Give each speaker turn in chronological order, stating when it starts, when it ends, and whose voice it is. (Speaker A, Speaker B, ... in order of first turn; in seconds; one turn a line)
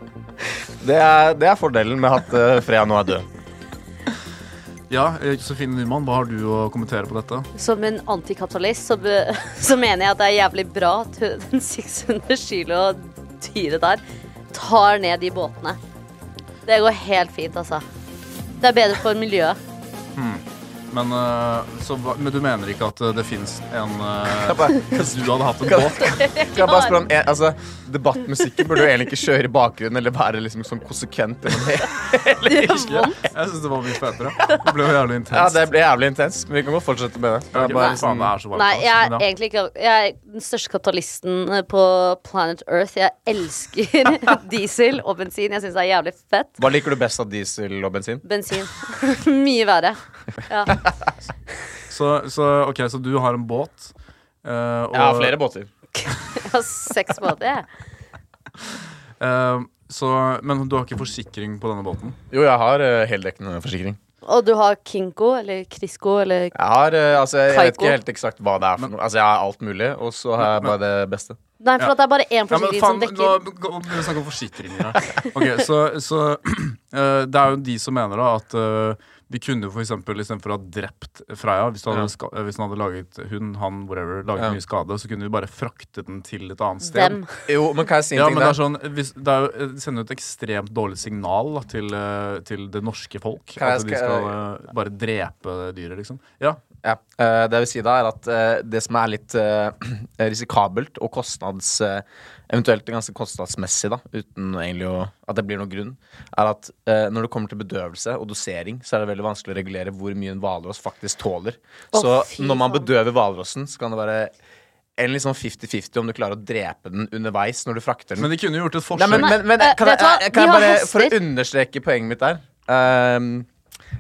Speaker A: 0.4-3.3
Speaker B: 4.9-7.5
Speaker C: 7.5-14.0
Speaker C: 14.5-15.8
Speaker C: 16.7-17.9
Speaker C: 18.6-19.6
Speaker B: 20.2-26.2
Speaker A: 24.3-33.2
Speaker C: 26.2-27.0
Speaker C: 32.5-33.1
Speaker B: 32.6-35.7
Speaker A: 35.3-38.3
Speaker B: 37.5-39.2
Speaker C: 37.6-38.0
Speaker C: 38.5-46.6
Speaker A: 46.6-48.2
Speaker C: 48.2-50.8
Speaker B: 51.9-53.9
Speaker B: 54.4-55.4
Speaker A: 54.9-55.7
Speaker C: 56.0-57.7
Speaker B: 59.2-62.2
Speaker A: 62.3-64.0
Speaker C: 64.2-66.6
Speaker A: 66.5-71.4
Speaker C: 67.5-68.0
Speaker B: 70.4-70.8
Speaker C: 71.6-73.4
Speaker B: 72.5-87.2
Speaker C: 86.8-87.3
Speaker A: 87.5-88.6
Speaker B: 88.2-96.6
Speaker A: 93.6-94.3
Speaker A: 96.8-114.3
Speaker C: 111.9-112.9
Speaker A: 115.0-118.3
Speaker B: 118.2-119.4
Speaker A: 118.9-123.5
Speaker C: 119.1-121.2